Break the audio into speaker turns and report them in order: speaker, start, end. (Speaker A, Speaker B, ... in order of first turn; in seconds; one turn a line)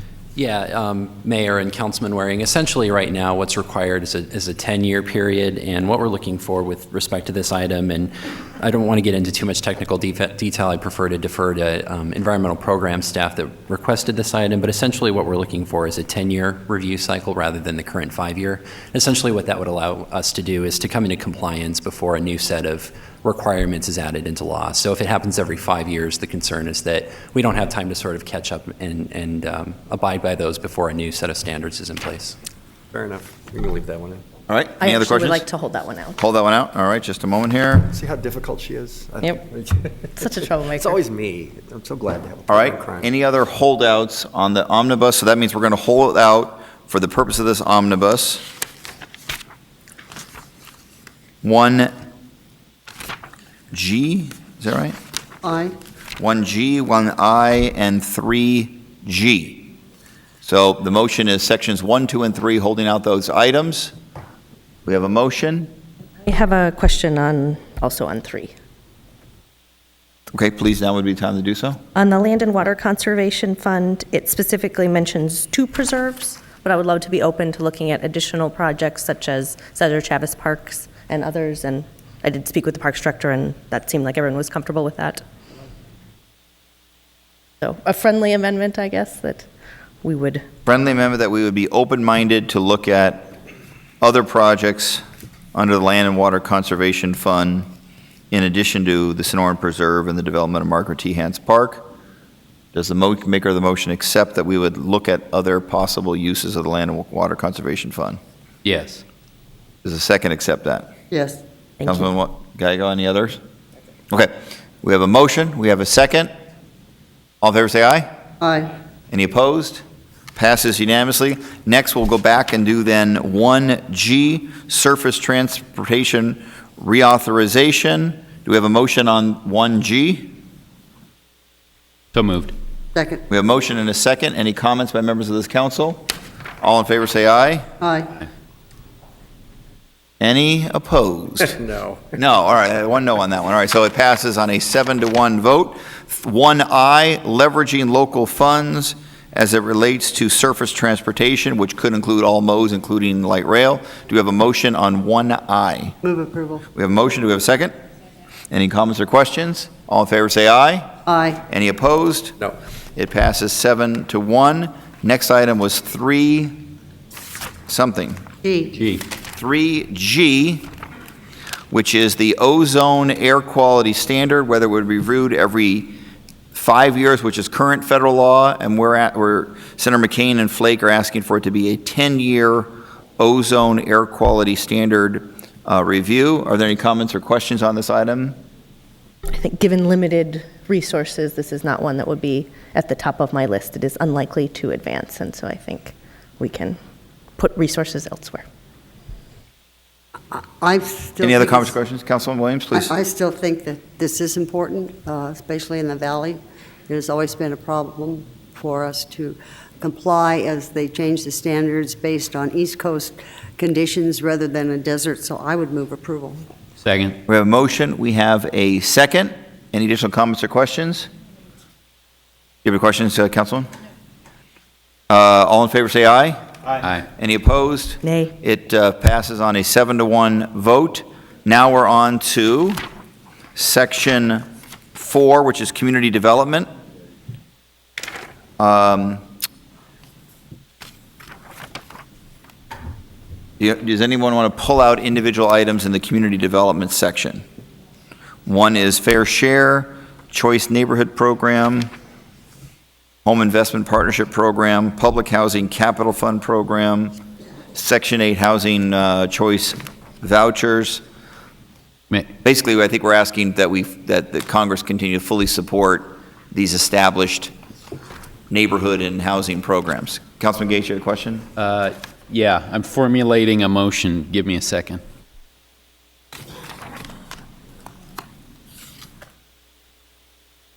Speaker A: 0.3-32.4
Speaker B: 32.9-34.2
Speaker C: 34.5-35.4
Speaker D: 34.8-36.2
Speaker C: 36.2-37.9
Speaker B: 37.9-40.1
Speaker D: 40.1-41.0
Speaker B: 40.8-43.1
Speaker C: 42.5-48.4
Speaker C: 51.4-51.9
Speaker C: 53.7-55.0
Speaker E: 55.4-55.7
Speaker C: 56.2-59.7
Speaker C: 60.4-63.9
Speaker C: 64.8-65.7
Speaker D: 66.2-68.5
Speaker C: 70.3-71.8
Speaker D: 71.9-85.2
Speaker D: 87.6-89.5
Speaker D: 90.0-90.4
Speaker C: 90.7-93.3
Speaker C: 94.0-95.0
Speaker C: 95.5-97.7
Speaker C: 98.3-101.9
Speaker C: 102.7-108.2
Speaker F: 108.6-109.0
Speaker C: 109.8-110.9
Speaker E: 111.1-111.4
Speaker C: 111.8-113.4
Speaker C: 114.1-116.3
Speaker C: 117.4-118.1
Speaker E: 118.4-118.7
Speaker C: 119.1-119.8
Speaker C: 120.3-130.3
Speaker F: 132.1-132.5
Speaker E: 132.9-133.2
Speaker C: 133.3-136.1
Speaker C: 136.6-137.6
Speaker E: 137.8-138.1
Speaker C: 140.2-141.6
Speaker B: 141.6-142.0
Speaker C: 142.1-156.0
Speaker E: 156.0-156.6
Speaker C: 156.7-157.7
Speaker C: 158.5-160.9
Speaker E: 161.1-161.4
Speaker C: 161.5-162.3
Speaker C: 163.0-166.7
Speaker C: 167.7-168.2
Speaker E: 168.4-168.8
Speaker F: 168.8-169.0
Speaker C: 169.3-170.7
Speaker C: 171.7-176.0
Speaker C: 176.5-188.4
Speaker D: 189.3-196.8
Speaker D: 197.4-198.4
Speaker E: 200.3-201.7
Speaker C: 201.2-202.9
Speaker E: 202.7-216.4
Speaker F: 216.8-217.2
Speaker C: 217.3-221.1
Speaker C: 222.6-223.7
Speaker C: 225.1-226.4
Speaker C: 227.2-232.8
Speaker D: 228.0-228.3
Speaker C: 233.6-236.7
Speaker C: 238.6-239.2
Speaker C: 243.6-247.4
Speaker C: 248.4-251.9
Speaker C: 253.2-257.2
Speaker C: 257.7-261.0
Speaker C: 262.4-267.5
Speaker C: 268.5-271.5
Speaker F: 271.6-275.0